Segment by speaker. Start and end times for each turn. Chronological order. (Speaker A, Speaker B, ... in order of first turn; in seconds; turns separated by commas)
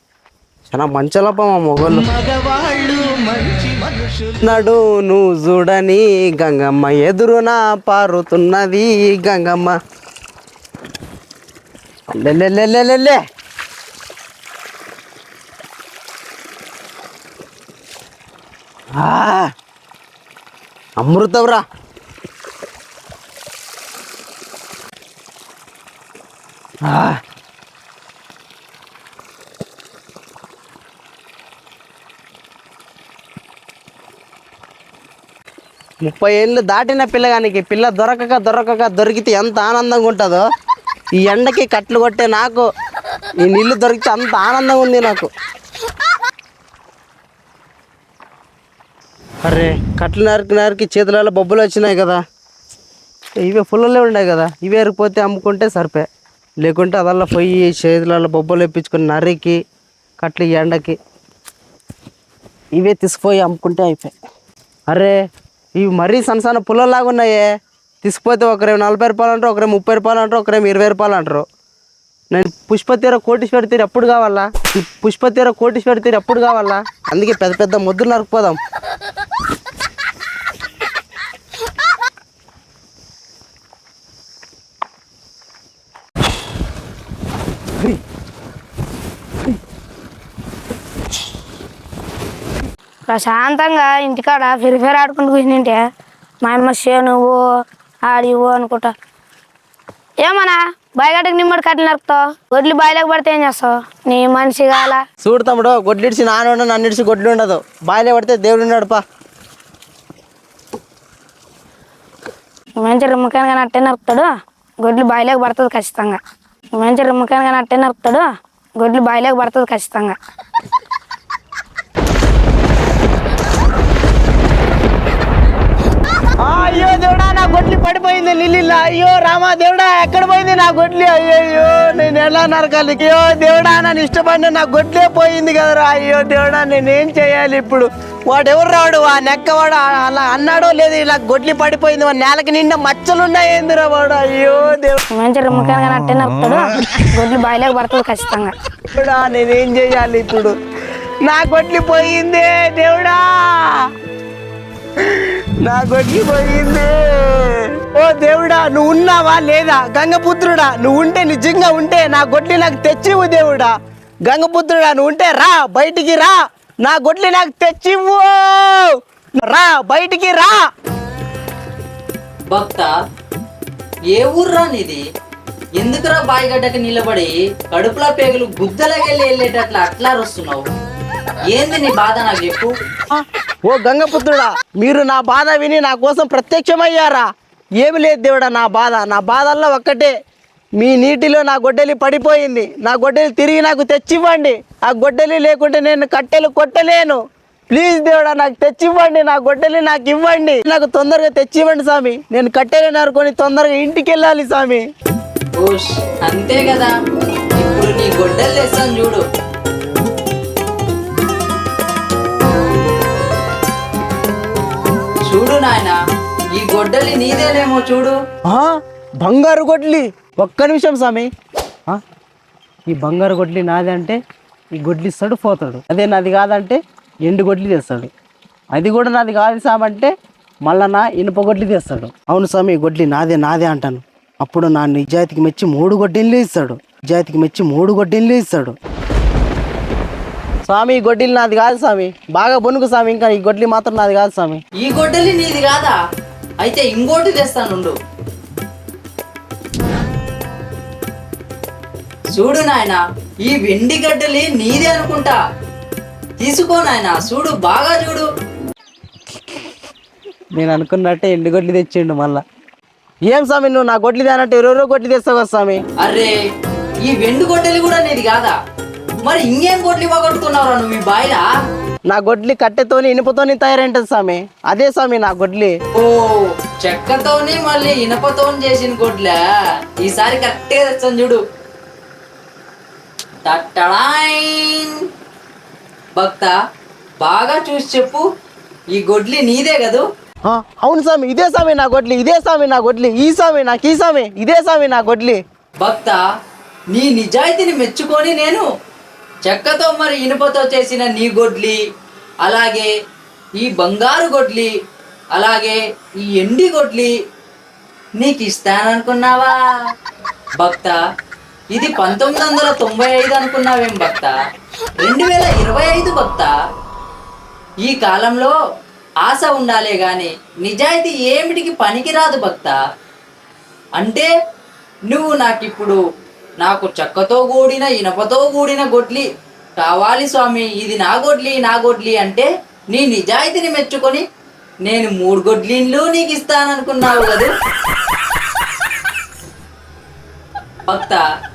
Speaker A: 0.7-2.1, Speaker A: 4.4-9.8, Speaker A: 12.1-13.2, Speaker A: 19.0-19.5, Speaker A: 21.0-21.6, Speaker A: 26.9-27.2, Speaker A: 36.0-40.4, Speaker A: 41.2-42.7, Speaker A: 43.4-45.3, Speaker A: 49.4-52.2, Speaker A: 53.4-56.1, Speaker A: 56.6-59.6, Speaker A: 60.2-61.0, Speaker A: 62.8-64.1, Speaker A: 64.9-65.2, Speaker A: 65.8-67.5, Speaker A: 68.0-71.5, Speaker A: 72.3-78.6, Speaker B: 93.1-95.8, Speaker B: 96.4-97.4, Speaker B: 98.1-98.9, Speaker B: 100.2-105.0, Speaker A: 105.2-109.0, Speaker B: 112.8-114.3, Speaker B: 114.8-116.2, Speaker B: 116.7-120.2, Speaker A: 126.4-145.0, Speaker B: 145.2-148.5, Speaker A: 148.9-150.5, Speaker A: 151.2-153.8, Speaker A: 155.0-163.7, Speaker A: 164.3-166.3, Speaker A: 166.8-170.6, Speaker C: 172.5-172.9, Speaker C: 174.2-175.0, Speaker C: 175.8-180.7, Speaker C: 181.5-182.7, Speaker A: 183.1-187.3, Speaker A: 187.8-190.1, Speaker A: 190.8-197.2, Speaker A: 197.7-204.8, Speaker C: 205.6-206.9, Speaker C: 207.6-209.2, Speaker C: 215.3-216.0, Speaker C: 216.6-218.2, Speaker A: 219.2-221.3, Speaker A: 222.9-224.2, Speaker A: 224.8-228.1, Speaker A: 228.7-230.1, Speaker A: 230.7-238.8, Speaker A: 240.7-244.6, Speaker C: 244.8-246.0, Speaker C: 246.6-248.0, Speaker C: 252.3-255.4, Speaker C: 256.4-258.3, Speaker A: 260.6-262.4, Speaker A: 263.3-265.8, Speaker C: 266.0-266.3, Speaker C: 267.1-268.6, Speaker C: 269.2-271.5, Speaker A: 272.1-275.7, Speaker C: 275.9-279.4, Speaker C: 280.0-281.4, Speaker C: 283.4-284.9, Speaker C: 286.2-286.5, Speaker C: 287.2-288.2, Speaker C: 288.9-290.0, Speaker A: 290.5-295.4, Speaker C: 295.8-296.2, Speaker C: 296.9-298.7, Speaker C: 299.4-301.8, Speaker C: 302.4-302.9, Speaker C: 303.6-304.7, Speaker C: 305.4-307.1, Speaker C: 308.2-309.5, Speaker C: 310.6-311.0, Speaker C: 311.7-314.4, Speaker C: 315.0-316.5, Speaker C: 317.9-318.5, Speaker C: 319.2-322.8, Speaker C: 324.0-324.3, Speaker C: 325.1-326.0, Speaker C: 326.6-329.3, Speaker C: 329.8-334.2, Speaker C: 334.9-337.5, Speaker C: 340.9-341.2